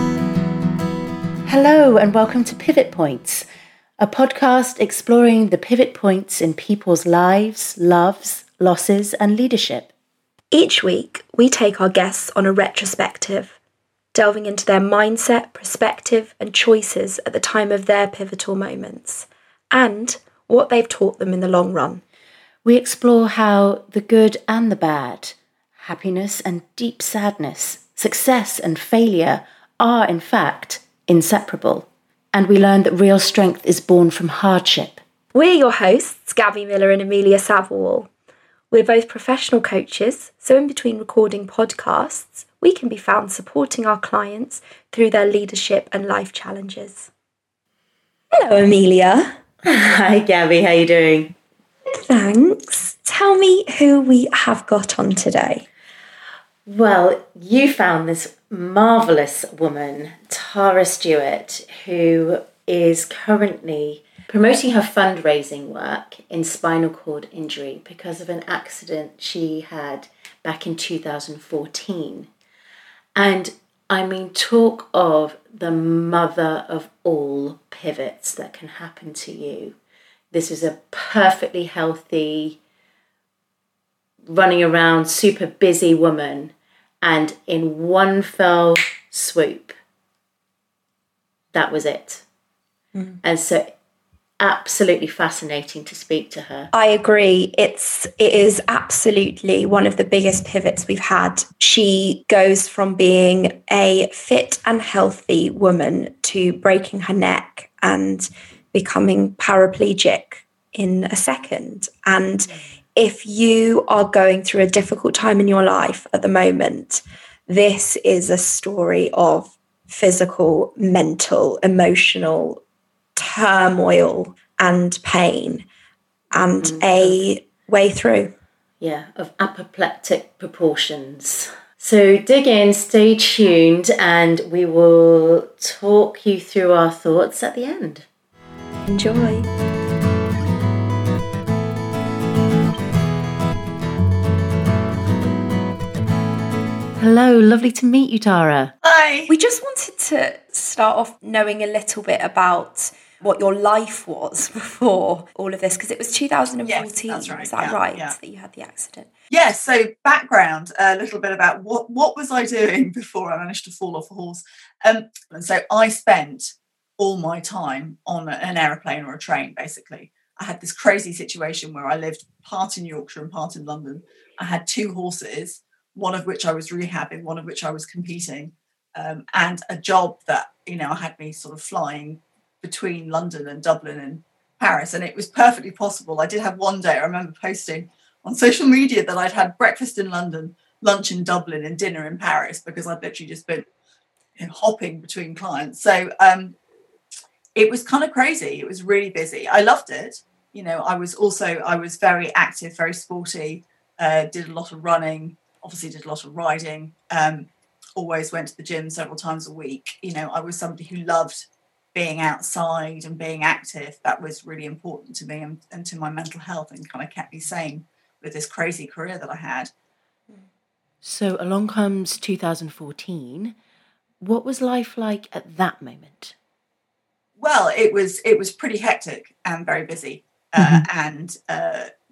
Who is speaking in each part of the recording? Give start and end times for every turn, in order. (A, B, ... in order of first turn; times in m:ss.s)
0:01.5-0:03.4 A
0:04.0-0:09.9 A
0:10.5-0:13.6 B
0:14.1-0:22.0 B
0:22.6-0:35.0 A
0:35.3-0:38.1 B
0:38.7-0:47.1 B
0:48.3-0:49.3 B
0:49.6-0:51.3 A
0:51.9-0:55.6 B
0:56.6-1:12.3 A
1:13.1-1:19.8 A
1:20.3-1:22.6 A
1:24.3-1:29.7 A
1:31.5-1:32.2 A
1:33.2-1:33.7 A
1:34.4-1:36.7 A
1:36.7-2:02.6 B
2:03.2-2:05.7 B
2:06.3-2:08.3 B
2:06.4-2:07.2 A
2:08.8-2:18.0 A
2:18.9-2:19.5 B
2:27.0-2:28.7 A
2:28.8-2:29.3 C
2:29.3-2:39.1 B
2:36.6-2:38.2 C
2:39.3-3:13.6 C
3:14.4-3:16.6 C
3:17.6-3:39.7 C
3:41.0-3:43.5 A
3:44.2-3:46.3 A
3:47.4-3:51.9 C